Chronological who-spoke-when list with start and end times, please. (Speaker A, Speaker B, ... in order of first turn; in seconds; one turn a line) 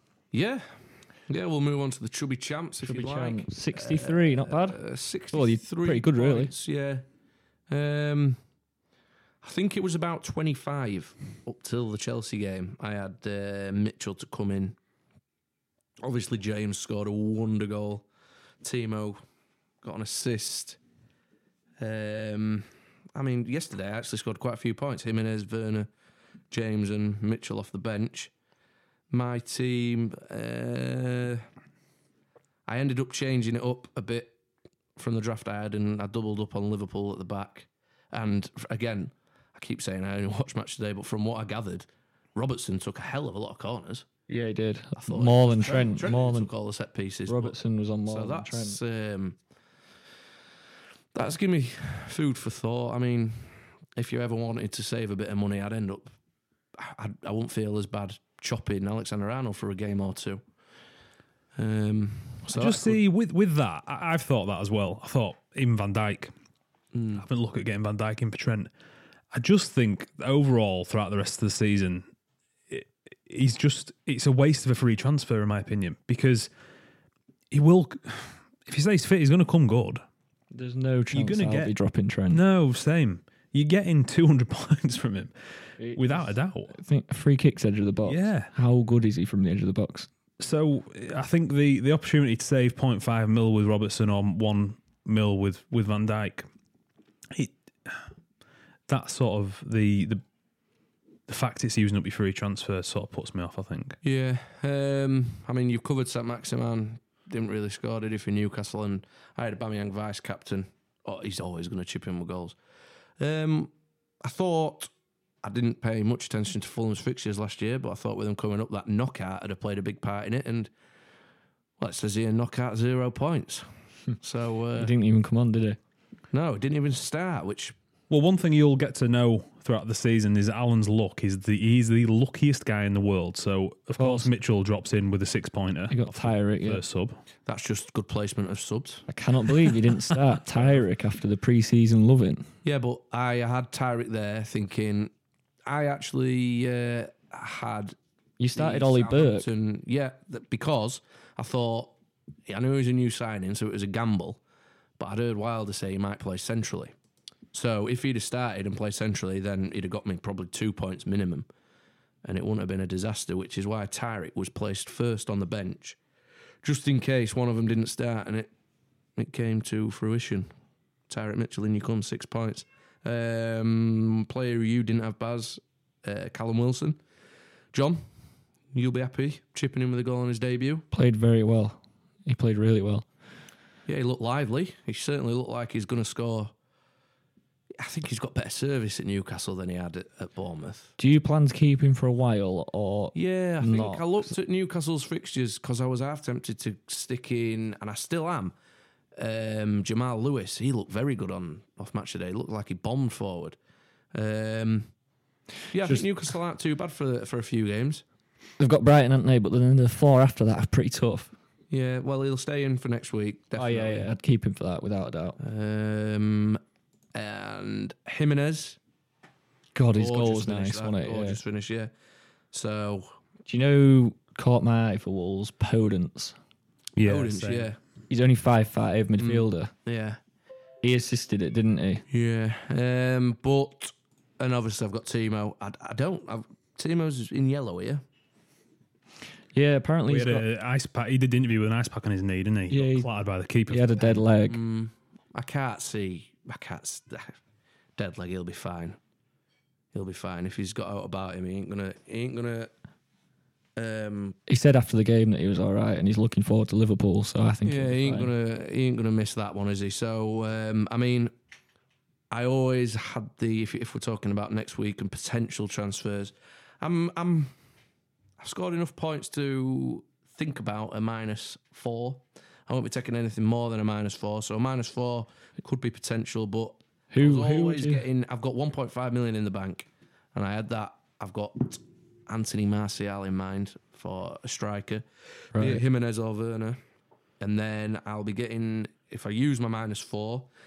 Speaker A: 0.3-7.0
Speaker B: 2.8-4.8
Speaker B: 5.3-6.5
Speaker A: 7.7-8.4
Speaker A: 9.4-14.8
Speaker A: 16.0-18.1
Speaker A: 18.6-19.2
Speaker A: 19.8-20.8
Speaker A: 21.8-25.9
Speaker A: 26.5-28.3
Speaker A: 29.1-31.4
Speaker A: 32.7-34.4
Speaker A: 35.0-44.1
Speaker B: 44.3-46.5
Speaker A: 45.0-49.4
Speaker B: 47.2-48.8
Speaker A: 51.1-56.1
Speaker A: 56.7-60.4
Speaker A: 61.5-63.0
Speaker C: 62.5-66.3
Speaker A: 66.9-67.2
Speaker C: 67.2-68.7
Speaker C: 69.3-72.0
Speaker C: 72.7-76.5
Speaker C: 77.5-80.0
Speaker B: 80.5-82.4
Speaker C: 81.1-81.7
Speaker C: 82.3-85.3
Speaker B: 85.8-90.1
Speaker C: 85.9-86.7
Speaker C: 88.0-88.5
Speaker C: 90.4-96.5
Speaker C: 97.3-98.0
Speaker C: 98.9-100.2
Speaker C: 101.3-104.0
Speaker A: 104.0-112.6
Speaker A: 113.2-114.9
Speaker A: 115.4-120.7
Speaker A: 121.8-123.7
Speaker A: 124.2-124.9
Speaker B: 124.8-125.8
Speaker A: 126.3-127.7
Speaker C: 128.1-137.2
Speaker B: 134.0-134.3
Speaker B: 135.9-136.8
Speaker A: 137.4-139.1
Speaker B: 139.1-142.5
Speaker A: 142.6-145.1
Speaker A: 145.7-147.9
Speaker B: 148.4-149.5
Speaker A: 148.5-151.9
Speaker A: 152.5-154.4
Speaker A: 155.0-156.9
Speaker A: 157.5-161.5
Speaker A: 162.2-166.0
Speaker A: 166.6-168.5
Speaker A: 169.2-170.5
Speaker A: 171.1-177.0
Speaker A: 177.7-178.0
Speaker A: 178.7-180.8
Speaker B: 180.9-183.1
Speaker A: 183.9-186.5
Speaker A: 187.8-190.9
Speaker B: 191.0-194.1
Speaker A: 193.1-198.5
Speaker A: 199.2-203.6
Speaker A: 204.1-204.9
Speaker A: 205.7-208.0
Speaker B: 208.6-211.3
Speaker A: 211.7-214.1
Speaker B: 213.6-215.4
Speaker A: 215.4-216.6
Speaker A: 217.1-218.8
Speaker B: 219.7-221.4
Speaker A: 219.9-221.9
Speaker A: 222.5-223.2
Speaker B: 223.4-226.3
Speaker C: 226.9-227.7
Speaker A: 227.0-227.8
Speaker B: 228.1-229.7
Speaker A: 229.2-230.2
Speaker B: 230.8-232.0
Speaker A: 232.1-238.0
Speaker B: 239.5-240.4
Speaker C: 240.1-244.2
Speaker B: 242.7-243.1
Speaker B: 243.7-244.6
Speaker A: 244.5-247.4
Speaker A: 248.0-249.0
Speaker A: 249.9-252.7
Speaker A: 253.8-254.4
Speaker B: 254.5-258.3
Speaker A: 257.6-261.3
Speaker A: 262.3-267.5
Speaker A: 268.4-286.8
Speaker B: 277.1-278.0
Speaker B: 285.5-285.8
Speaker A: 287.4-290.5